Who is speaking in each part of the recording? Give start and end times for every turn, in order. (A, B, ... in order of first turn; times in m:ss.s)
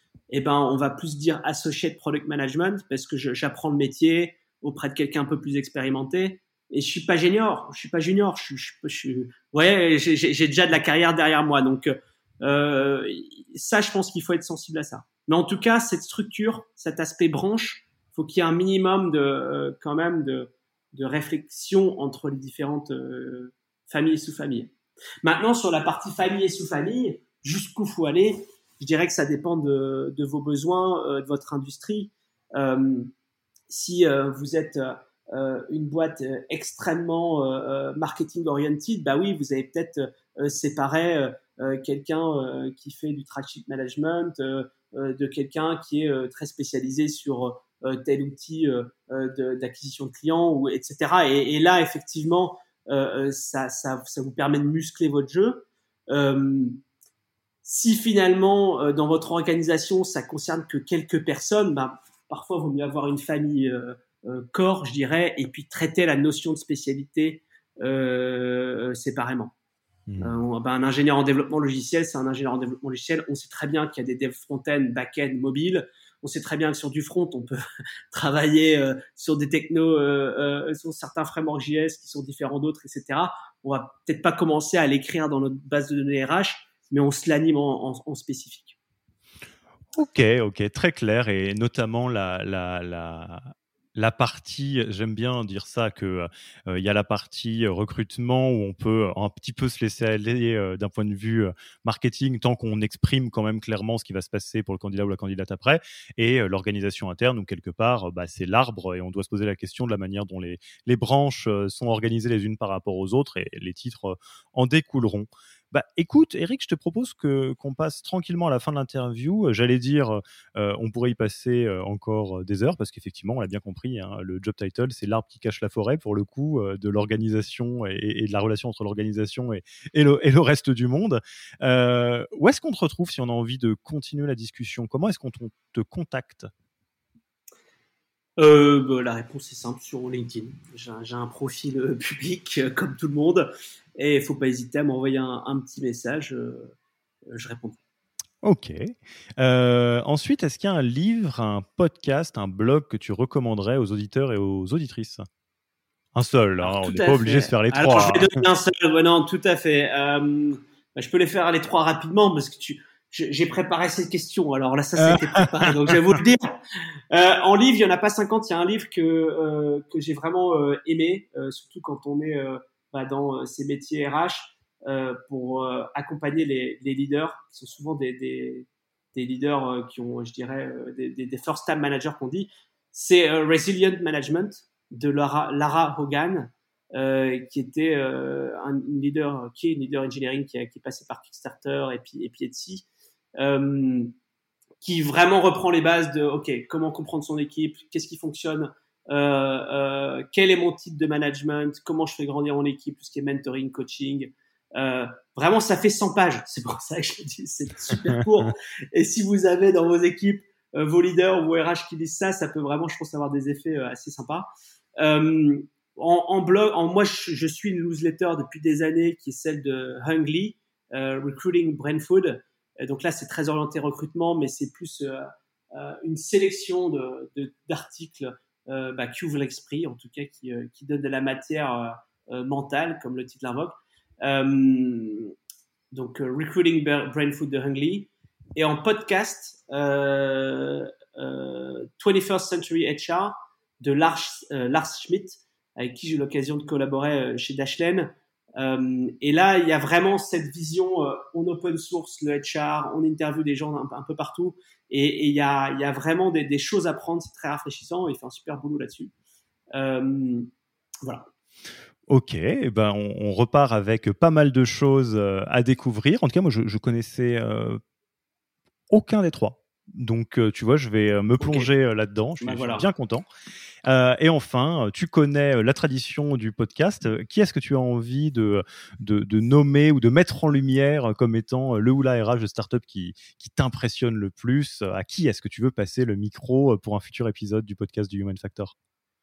0:00.3-0:33.1 A
0:33.7-0:56.8 A
0:57.6-1:09.5 A
1:10.1-1:10.4 B
1:10.2-1:17.6 A
1:18.1-1:28.8 A
1:29.9-2:16.5 B
2:18.4-2:26.7 A
2:27.3-2:27.8 A
2:28.4-2:35.2 B
2:36.1-2:38.4 B
2:36.6-2:46.6 A
2:45.0-2:46.0 B
2:47.1-3:12.8 A
3:13.4-3:14.1 A
3:14.8-3:55.3 A
3:55.9-4:19.1 A
4:19.7-4:20.5 A
4:21.0-4:21.3 A
4:22.1-4:27.8 B
4:28.9-4:33.2 B
4:31.4-4:31.7 A
4:32.4-4:32.8 A
4:33.8-4:48.7 B